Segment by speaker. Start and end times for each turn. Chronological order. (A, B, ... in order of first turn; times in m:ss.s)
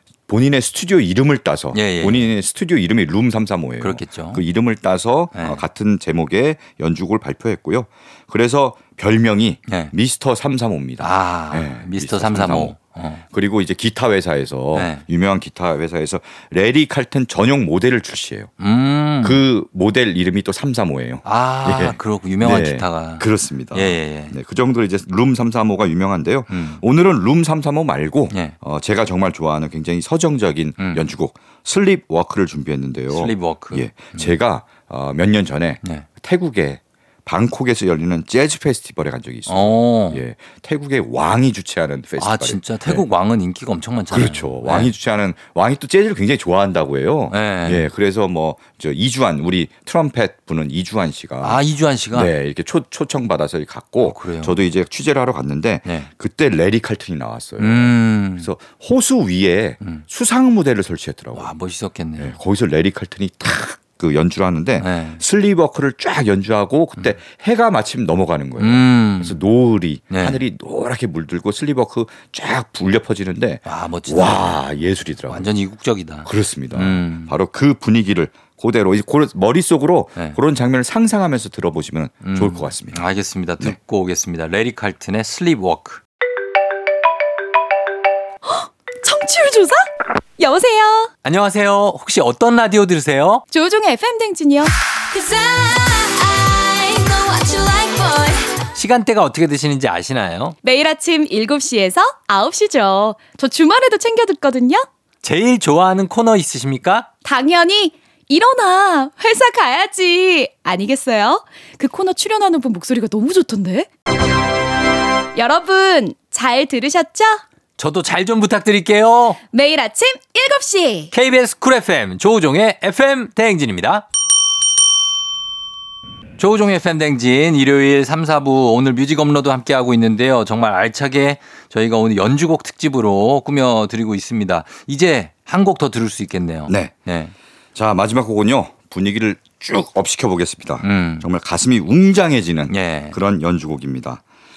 0:00.3-0:18.5 A
0:01.7-0:02.3 B
0:03.8-0:04.4 B
0:05.3-0:05.6 B
0:09.7-0:09.9 B
0:11.0-0:13.2 B
0:14.7-0:15.0 B
0:18.6-0:19.4 B
0:19.2-0:43.0 A
0:21.2-0:24.3 B
0:26.5-0:26.8 B
0:30.8-0:31.1 B
0:33.1-0:34.4 B
0:39.5-0:40.2 B
0:42.2-0:44.9 B
0:44.1-0:51.6 A
0:47.3-0:47.8 B
0:51.4-0:52.3 B
0:52.1-1:01.5 A
0:54.0-0:54.6 B
0:57.6-0:58.5 B
1:01.3-1:02.4 B
1:02.2-1:15.5 A
1:04.8-1:05.2 B
1:08.6-1:09.4 B
1:10.1-1:10.4 B
1:13.6-1:14.6 B
1:15.3-1:17.3 B
1:16.2-1:23.0 A
1:22.2-1:26.0 B
1:28.4-1:31.1 C
1:31.2-1:33.4 B
1:33.5-1:38.5 C
1:38.7-1:40.5 B
1:40.6-1:44.8 C
1:45.2-1:47.1 B
1:47.2-1:53.9 C
1:55.3-1:57.4 C
1:57.8-1:59.4 B
1:59.5-2:01.1 C
2:01.1-2:04.0 B
2:06.4-2:17.3 B
2:16.7-2:16.9 A
2:17.7-2:24.2 A
2:20.8-2:21.2 B
2:22.7-2:23.2 B